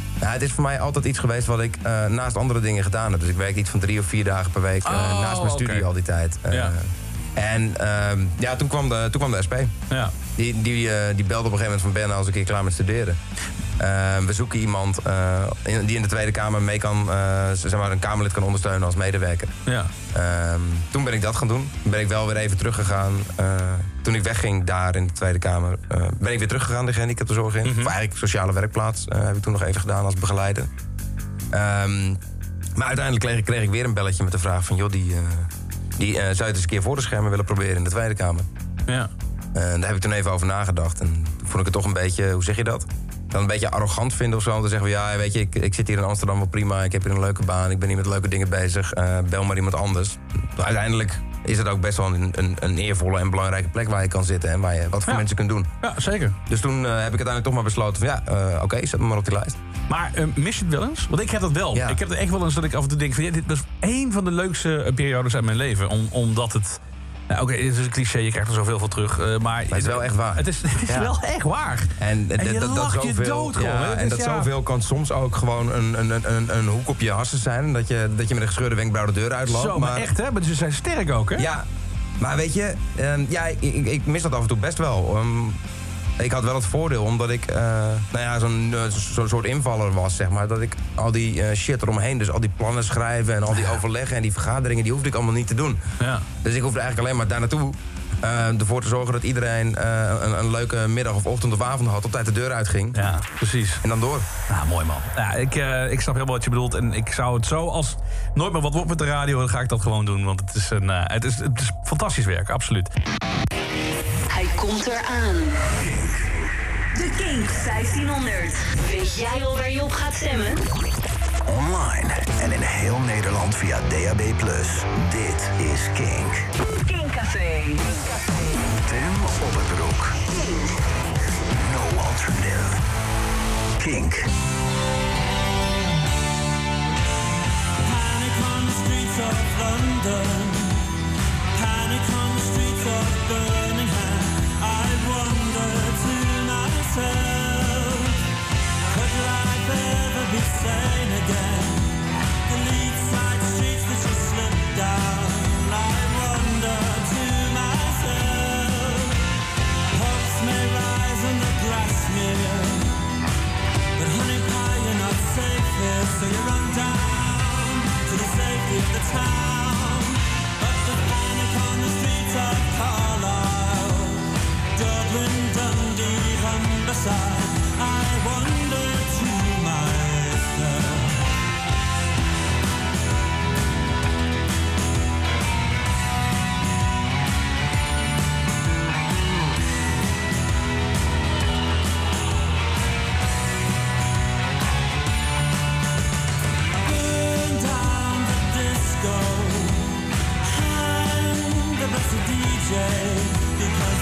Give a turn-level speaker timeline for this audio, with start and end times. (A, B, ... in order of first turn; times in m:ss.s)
0:00.2-0:09.7 A
0:04.8-0:05.9 B
0:10.4-0:13.2 A
0:13.8-0:19.6 A
0:20.1-0:30.7 A
0:27.6-0:27.9 B
0:31.5-0:32.2 A
0:32.8-0:38.4 A
0:39.6-0:55.7 A
0:55.8-0:56.4 B
0:56.4-0:59.6 A
0:59.9-1:14.5 B
1:09.7-1:11.1 A
1:12.0-1:20.1 A
1:19.5-1:21.5 B
1:21.4-1:21.7 A
1:22.2-1:25.6 A
1:26.2-1:35.8 A
1:36.0-1:36.3 B
1:36.4-1:43.0 A
1:42.9-1:43.8 B
1:43.8-1:44.3 A
1:44.5-1:52.9 B
1:54.3-1:55.7 C
1:57.0-2:00.7 C
2:01.4-2:06.5 D
2:06.8-2:08.0 C
2:08.8-2:10.2 D
2:10.3-2:10.6 C
2:11.5-2:12.8 D
2:13.8-2:14.3 D
2:17.9-2:20.5 E
2:21.6-2:27.8 E
2:29.0-2:31.6 E
2:32.6-2:38.3 E
2:40.0-2:42.5 E
2:44.1-2:47.1 E
2:48.3-2:49.6 E
2:50.8-2:53.2 E
2:54.8-2:59.9 E